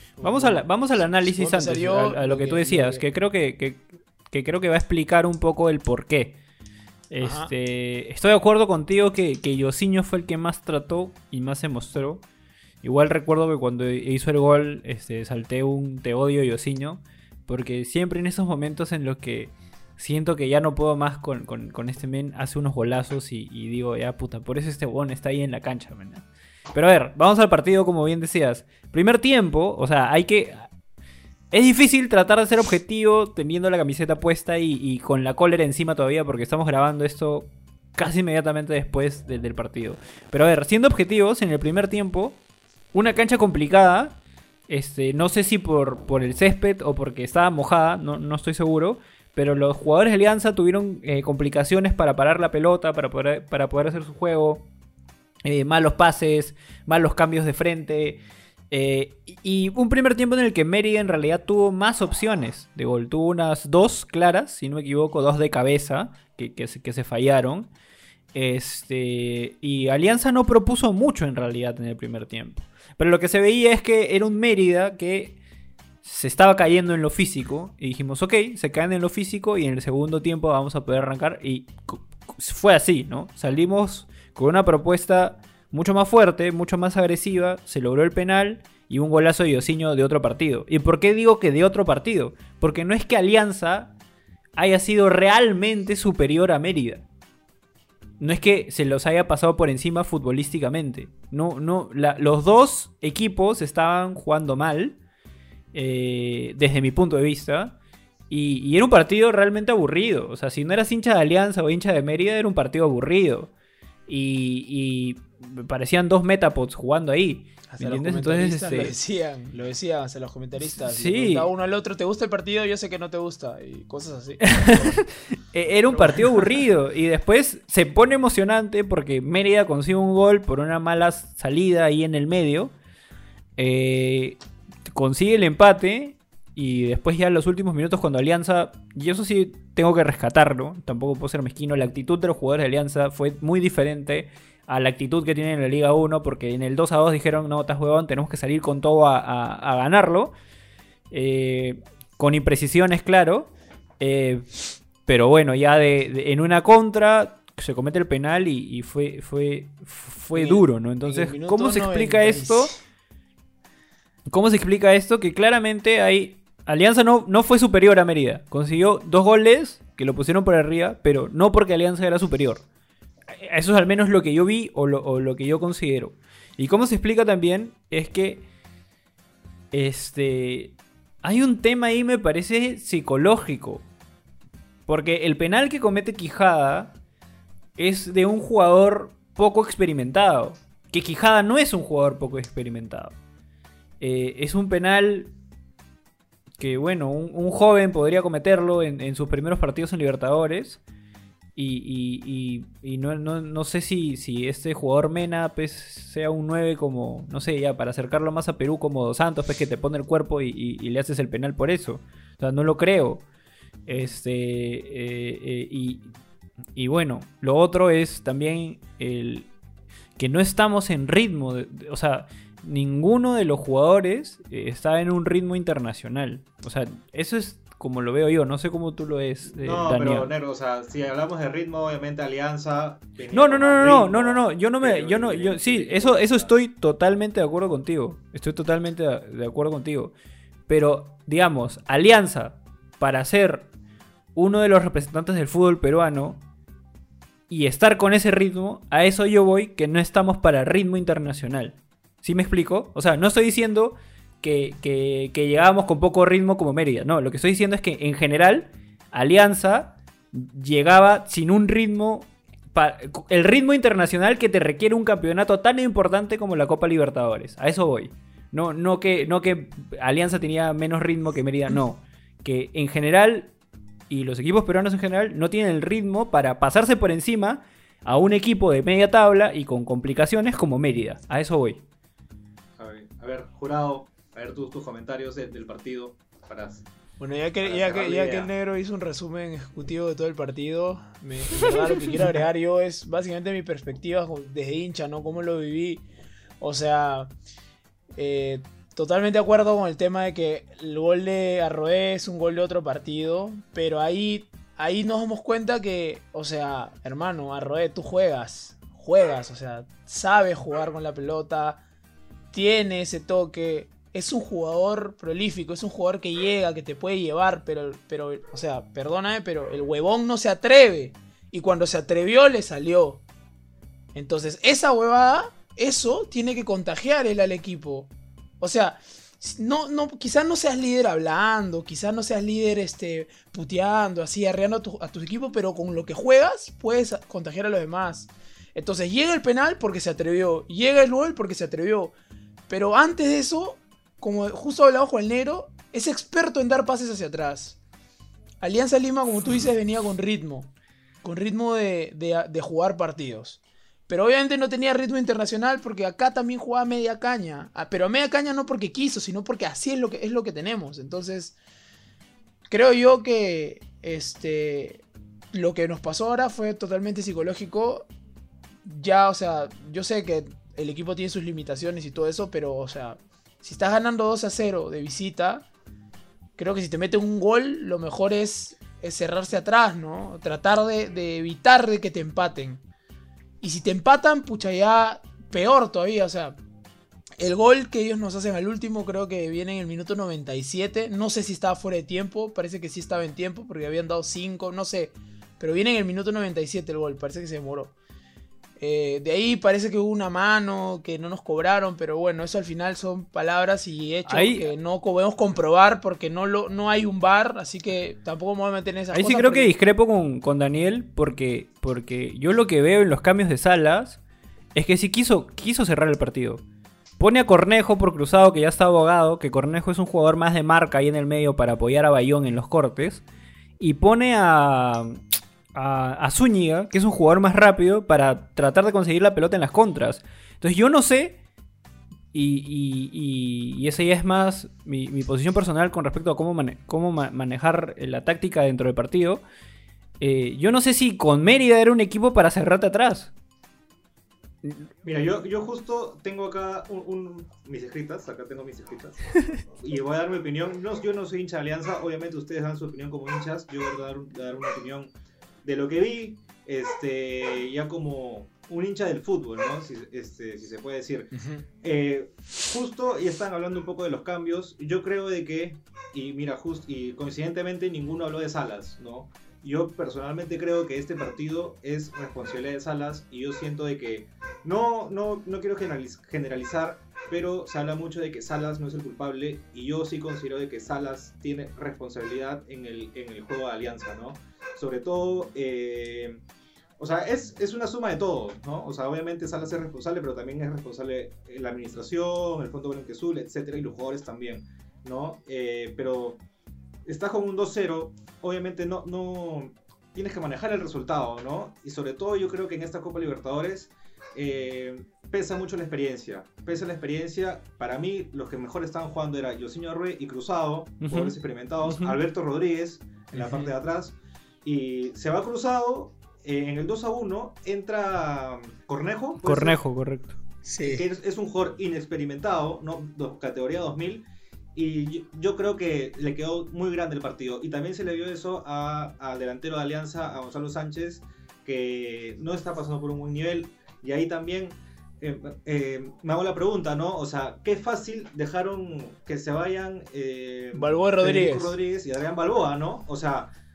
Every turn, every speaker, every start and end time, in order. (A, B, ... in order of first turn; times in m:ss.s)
0:00.2-0:00.7 A
0:00.2-0:06.4 B
0:01.2-0:03.0 A
0:07.1-0:12.2 B
0:07.2-0:07.5 A
0:12.8-0:30.7 B
0:31.5-0:42.4 B
0:42.9-0:44.2 B
0:44.7-0:54.7 B
0:55.4-1:07.7 B
1:08.3-1:15.4 B
1:16.0-1:33.9 B
1:34.6-1:37.1 B
1:38.2-1:45.0 B
1:45.7-1:47.8 B
1:48.3-1:53.5 B
1:54.1-1:58.9 B
1:57.7-2:05.0 A
2:00.7-2:01.5 B
2:04.4-2:12.7 B
2:05.9-2:06.6 A
2:13.6-2:30.3 B
2:31.1-2:34.5 B
2:35.1-2:42.7 B
2:40.4-2:42.7 A
2:44.3-2:52.6 B
2:53.3-2:58.5 B
2:59.7-3:03.8 B
3:04.9-3:07.0 B
3:07.8-3:13.1 B
3:14.0-3:15.3 B
3:16.6-3:20.8 B
3:21.6-3:33.2 B
3:33.9-3:36.1 B
3:36.8-3:39.5 B
3:40.2-3:50.3 B
3:49.6-3:56.5 C
3:53.3-4:00.1 B
4:00.7-4:03.7 B
4:04.4-4:06.4 B
4:07.5-4:33.5 B
4:34.1-4:41.8 B
4:42.8-4:46.9 C
4:47.2-4:56.0 A
4:47.6-4:48.5 C
4:56.6-4:57.3 A
4:58.2-5:11.8 A
5:12.5-5:23.2 A
5:24.1-5:42.1 A
5:42.7-5:47.8 A
5:48.6-5:50.7 A
5:51.2-6:01.6 A
6:02.7-6:08.1 A
6:08.8-6:15.7 A
6:16.6-6:22.8 A
6:23.6-6:26.6 A
6:27.4-6:37.9 A
6:38.8-6:49.7 A
6:44.3-6:44.7 B
6:49.1-6:54.2 B
6:54.8-6:56.6 B
6:57.2-7:03.2 B
7:03.8-7:05.2 B
7:05.7-7:11.4 B
7:12.3-7:19.4 B
7:20.2-7:23.3 B
7:25.0-7:29.2 C
7:29.8-7:35.1 C
7:35.6-8:06.4 C
7:41.3-7:41.7 A
8:07.0-8:16.4 C
8:17.1-8:39.8 C
8:31.0-8:31.3 B
8:31.9-8:32.2 B
8:33.4-8:33.7 A
8:39.4-8:40.4 B
8:40.6-8:41.0 A
8:40.8-9:03.5 C
9:00.7-9:01.7 A